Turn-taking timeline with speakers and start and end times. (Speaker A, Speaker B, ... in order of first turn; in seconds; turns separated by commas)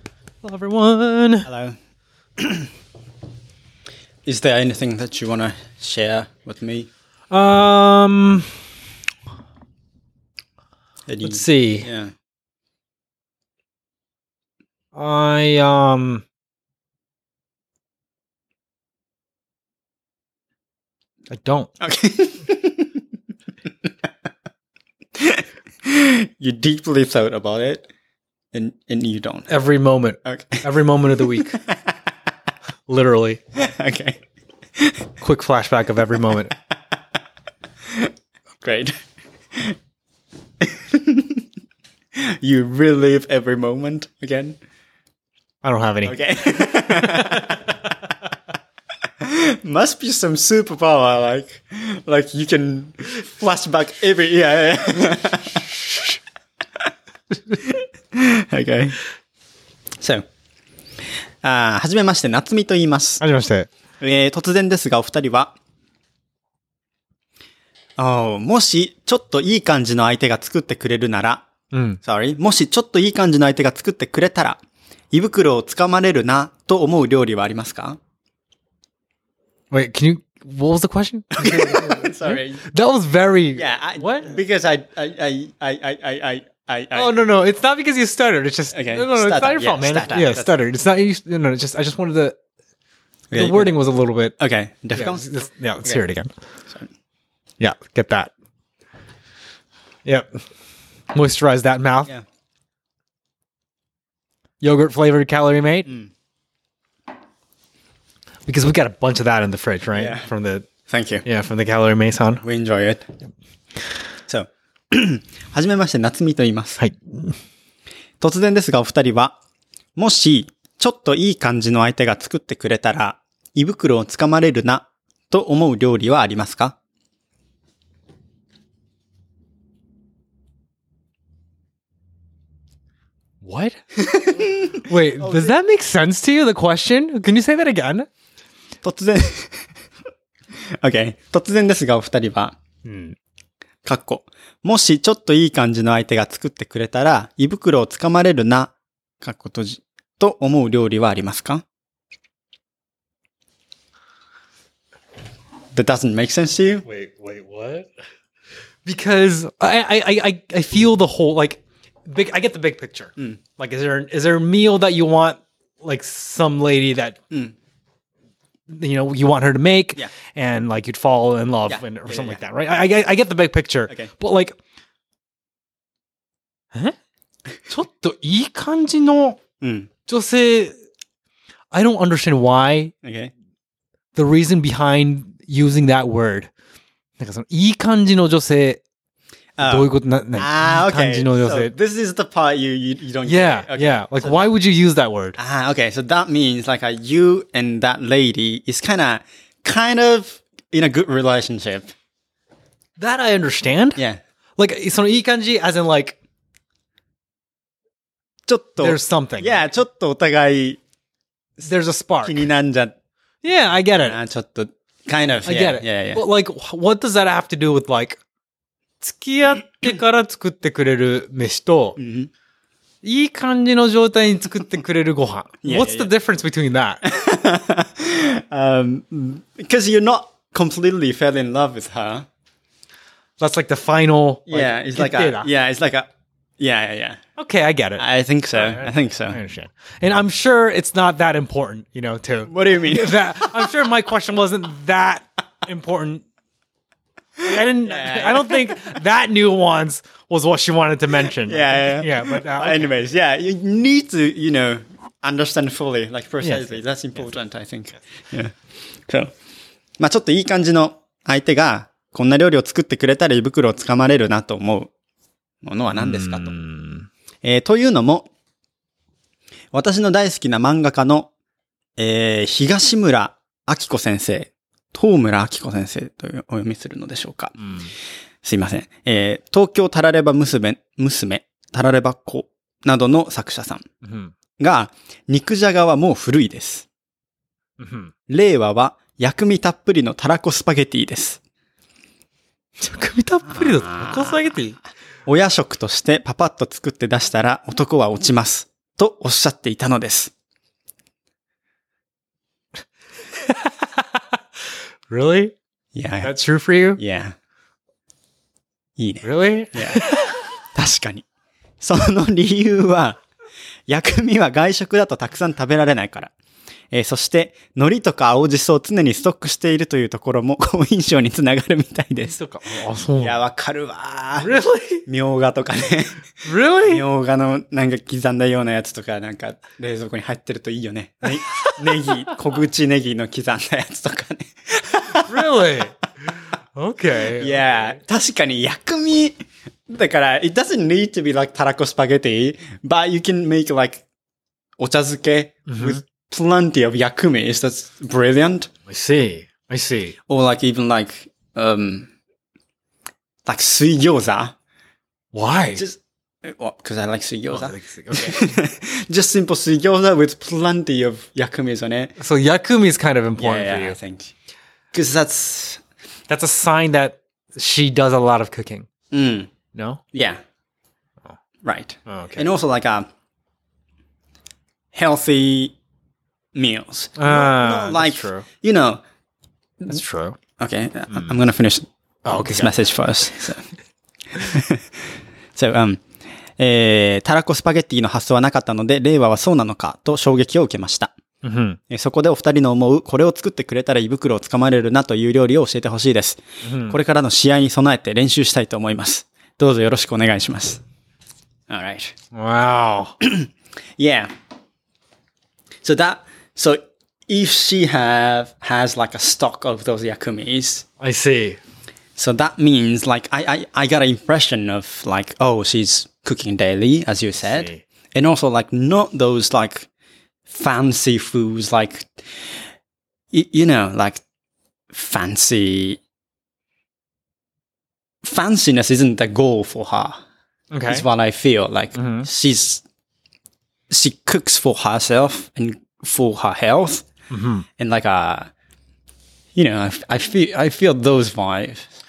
Speaker A: 0.4-1.5, Speaker B: 1.4-1.8, Speaker B: 2.4-2.7, Speaker B: 4.2-6.9, Speaker A: 7.3-8.5, Speaker B: 11.1-12.1, Speaker A: 11.2-11.9, Speaker A: 14.9-16.2, Speaker A: 21.3-21.7, Speaker B: 21.8-23.0, Speaker B: 25.1-27.9, Speaker B: 28.5-29.5, Speaker A: 29.5-31.6, Speaker B: 30.2-31.8, Speaker A: 32.9-33.4, Speaker B: 33.6-34.2, Speaker B: 34.8-35.0, Speaker A: 35.2-36.5, Speaker B: 38.6-38.9, Speaker B: 40.6-41.4, Speaker B: 42.1-44.6, Speaker A: 45.6-46.2, Speaker B: 46.0-47.8, Speaker A: 46.7-47.5, Speaker B: 49.2-55.8, Speaker B: 57.5-59.0, Speaker B: 61.4-63.2, Speaker A: 63.2-63.7, Speaker B: 64.0-65.5, Speaker B: 68.0-71.5, Speaker A: 71.7-72.0, Speaker B: 72.0-74.6, Speaker B: 75.1-78.0, Speaker A: 79.7-84.4, Speaker B: 81.3-82.7, Speaker B: 83.5-87.2, Speaker A: 86.9-92.4, Speaker B: 88.7-90.6, Speaker B: 93.3-93.8, Speaker A: 93.3-94.3, Speaker B: 94.4-95.3, Speaker A: 94.9-96.3, Speaker A: 97.6-98.3, Speaker A: 100.0-100.4, Speaker A: 101.1-102.1, Speaker A: 104.6-105.9, Speaker A: 108.5-110.7, Speaker B: 109.9-110.3, Speaker B: 110.9-111.2, Speaker A: 111.2-112.4, Speaker B: 112.4-113.1, Speaker B: 114.3-116.8, Speaker A: 116.8-117.3, Speaker B: 118.2-119.4, Speaker B: 120.0-126.8, Speaker A: 133.4-133.8, Speaker A: 134.7-138.1, Speaker B: 135.2-135.5, Speaker B: 138.8-139.7, Speaker B: 140.6-142.6, Speaker A: 142.8-143.2, Speaker B: 143.8-151.6, Speaker B: 155.7-156.8, Speaker A: 156.8-157.9, Speaker A: 158.8-167.2, Speaker A: 168.7-174.5, Speaker B: 171.7-172.4, Speaker A: 177.7-179.4, Speaker B: 179.6-179.9, Speaker A: 180.1-180.7, Speaker A: 181.7-182.9, Speaker B: 183.0-183.3, Speaker A: 184.1-186.5, Speaker A: 187.2-188.8, Speaker B: 189.6-194.5, Speaker A: 189.6-191.7, Speaker A: 193.2-195.4, Speaker B: 195.3-201.9, Speaker A: 203.0-204.0, Speaker A: 204.6-206.2, Speaker B: 208.5-210.8, Speaker A: 208.8-209.6, Speaker A: 211.6-212.4, Speaker B: 212.2-212.9, Speaker A: 213.4-214.2, Speaker B: 214.0-216.2, Speaker A: 215.4-218.2, Speaker A: 219.0-222.0, Speaker B: 222.0-222.3, Speaker A: 223.0-227.0, Speaker B: 225.6-226.1, Speaker B: 227.0-232.2, Speaker A: 233.4-235.5, Speaker B: 234.5-236.1, Speaker B: 236.6-237.2, Speaker A: 237.4-246.2, Speaker B: 238.0-239.4, Speaker B: 242.5-243.7, Speaker B: 247.4-249.0, Speaker A: 247.4-252.9, Speaker B: 251.2-258.5, Speaker A: 256.4-256.8, Speaker B: 260.0-264.9, Speaker B: 265.6-266.6, Speaker A: 265.9-267.1, Speaker B: 267.4-268.3, Speaker B: 269.7-271.3, Speaker B: 272.0-277.6, Speaker A: 277.6-277.9, Speaker B: 278.4-283.8, Speaker A: 284.0-284.3, Speaker B: 284.6-286.9, Speaker A: 287.8-288.1, Speaker B: 288.3-291.4, Speaker A: 292.8-294.8, Speaker B: 293.4-294.4, Speaker B: 295.2-300.3, Speaker A: 303.6-304.2, Speaker A: 305.1-305.5, Speaker B: 305.9-306.3, Speaker A: 306.2-307.0, Speaker B: 306.9-307.3, Speaker B: 309.0-310.1, Speaker A: 309.2-310.4, Speaker B: 310.7-311.2, Speaker B: 311.8-313.2, Speaker B: 313.9-316.3, Speaker B: 316.9-322.4, Speaker A: 322.3-323.4, Speaker B: 323.2-324.5, Speaker A: 324.4-325.0, Speaker B: 325.1-335.9, Speaker A: 326.4-327.0, Speaker A: 335.2-335.9, Speaker A: 336.7-338.0, Speaker B: 337.3-344.1, Speaker B: 344.8-348.7, Speaker A: 345.7-346.0, Speaker A: 348.9-350.1, Speaker B: 350.3-352.1, Speaker B: 353.4-354.5, Speaker A: 355.3-355.8, Speaker B: 355.7-362.1, Speaker A: 357.5-358.5, Speaker A: 362.2-364.0, Speaker B: 363.4-364.3, Speaker B: 364.9-365.8, Speaker A: 366.3-368.9, Speaker B: 369.1-369.5, Speaker A: 369.7-370.0, Speaker B: 370.1-370.4, Speaker B: 371.6-373.1, Speaker A: 372.1-372.5, Speaker B: 374.9-375.7, Speaker B: 376.5-379.0, Speaker A: 377.2-378.4, Speaker A: 379.9-380.4, Speaker B: 380.6-383.6, Speaker A: 382.2-382.8, Speaker B: 384.3-384.8, Speaker B: 385.5-386.0, Speaker B: 386.6-391.1, Speaker A: 391.4-391.8, Speaker B: 391.9-400.8, Speaker A: 396.6-397.0, Speaker B: 401.7-402.1, Speaker A: 402.3-403.1, Speaker B: 403.2-404.3, Speaker B: 405.8-410.9, Speaker A: 411.0-411.6, Speaker B: 412.1-419.9, Speaker A: 417.4-417.8, Speaker B: 420.5-422.6, Speaker B: 423.3-424.2, Speaker B: 424.9-426.0, Speaker B: 428.2-430.2, Speaker A: 430.7-431.1, Speaker B: 430.9-432.8, Speaker A: 431.9-432.3, Speaker B: 433.9-437.1, Speaker A: 437.3-437.6, Speaker B: 437.8-438.5, Speaker B: 439.5-441.9